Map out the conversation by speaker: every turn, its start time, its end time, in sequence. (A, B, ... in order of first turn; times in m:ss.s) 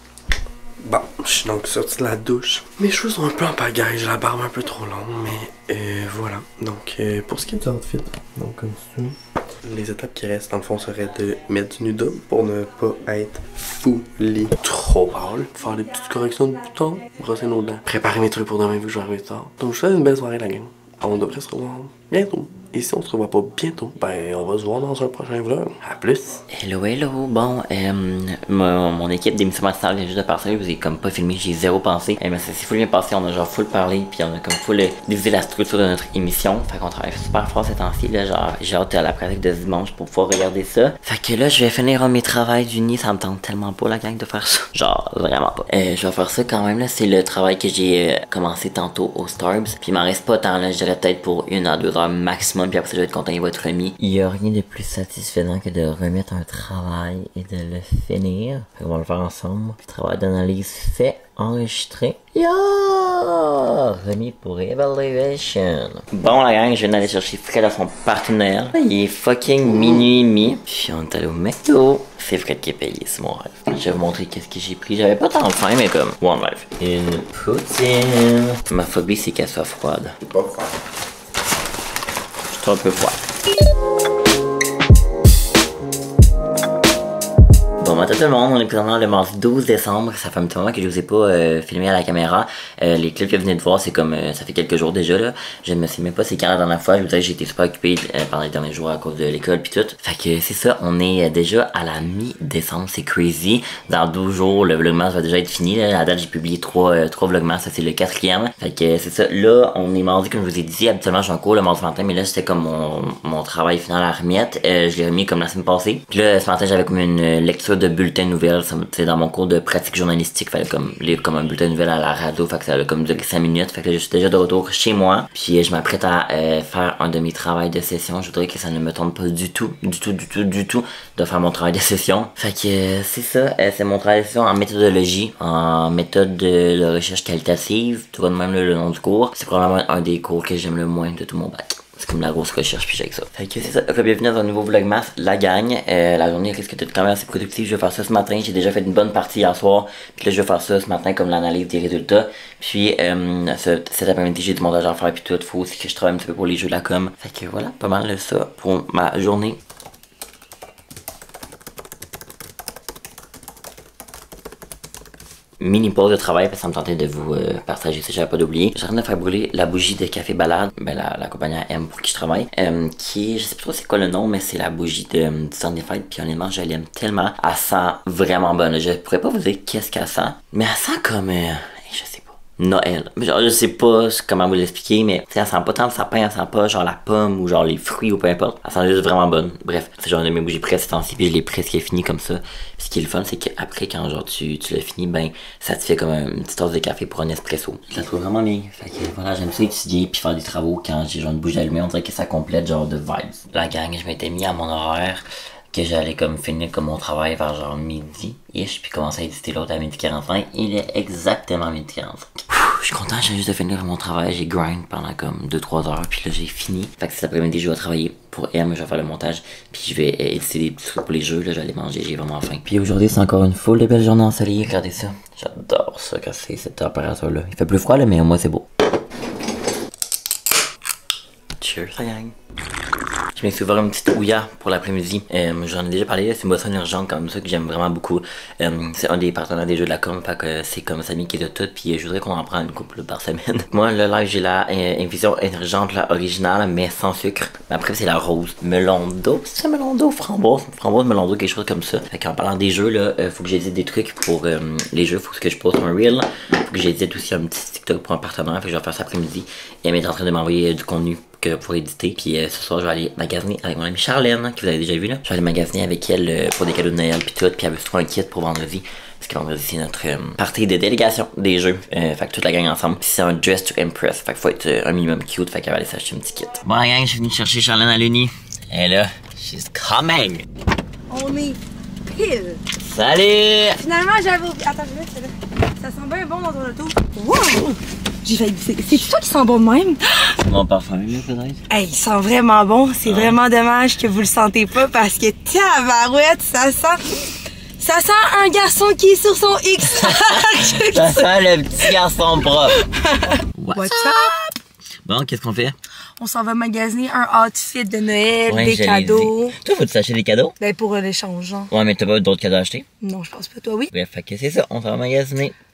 0:00.8-0:26.4 A
0:26.5-1:20.2 B
1:20.2-1:20.7 A
1:22.5-1:23.2 B
1:27.8-2:39.6 B
2:45.6-3:48.7 B
3:51.6-3:52.4 B
3:53.4-4:40.4 B
4:41.1-4:42.6 C
4:42.8-4:43.8 B
4:43.8-4:50.4 C
4:50.3-4:51.6 B
4:51.7-4:57.2 C
4:53.0-4:53.4 B
4:57.8-5:02.0 C
4:59.8-5:02.8 B
5:02.6-5:04.5 C
5:03.4-5:04.3 B
5:05.0-5:05.8 B
5:06.2-5:09.6 C
5:08.5-5:10.6 B
5:10.6-5:11.7 C
5:11.7-5:12.9 B
5:13.0-5:13.9 C
5:13.9-5:15.6 B